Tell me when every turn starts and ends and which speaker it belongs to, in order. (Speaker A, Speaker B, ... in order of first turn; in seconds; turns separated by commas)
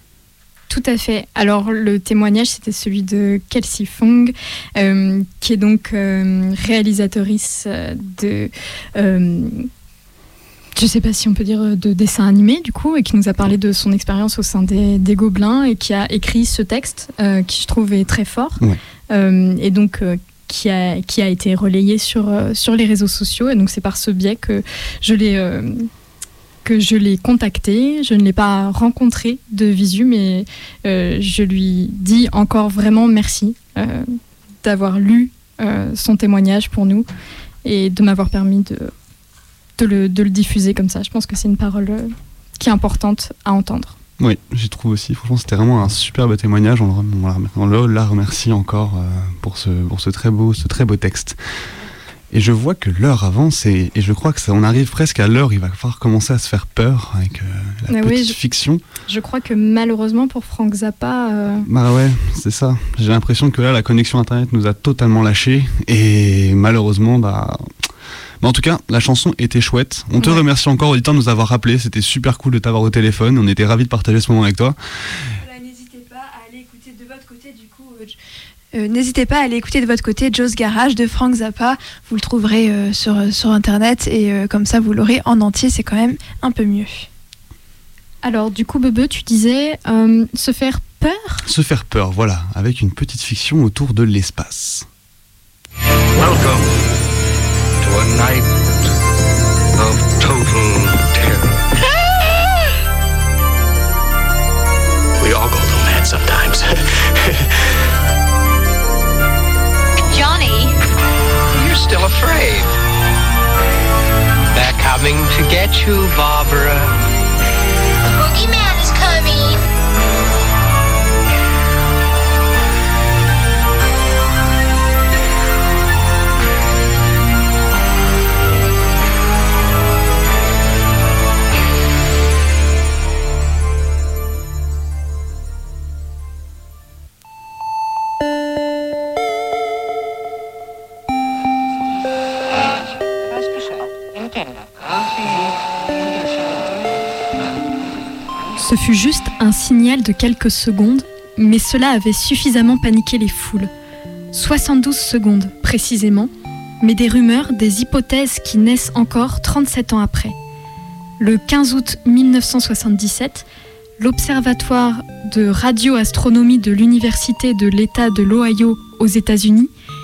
Speaker A: 0.7-9.7, Speaker A: 10.8-25.9, Speaker A: 26.6-34.0, Speaker A: 34.6-37.1, Speaker A: 37.6-38.9, Speaker A: 39.8-43.9, Speaker B: 44.2-51.4, Speaker B: 52.3-58.8, Speaker A: 57.9-58.4, Speaker A: 59.0-61.7, Speaker B: 61.6-67.6, Speaker B: 68.4-74.8, Speaker A: 70.2-70.4, Speaker C: 75.4-78.1, Speaker C: 78.7-87.1, Speaker A: 88.2-91.4, Speaker B: 91.4-94.9, Speaker D: 96.2-96.7, Speaker D: 97.8-98.7, Speaker D: 99.7-101.5, Speaker D: 105.2-107.5, Speaker E: 110.1-110.8, Speaker D: 111.5-112.7, Speaker D: 114.5-116.9, Speaker E: 118.0-119.6, Speaker A: 148.6-153.7, Speaker A: 154.3-156.3, Speaker A: 156.8-160.3, Speaker A: 161.2-163.5, Speaker A: 164.0-169.7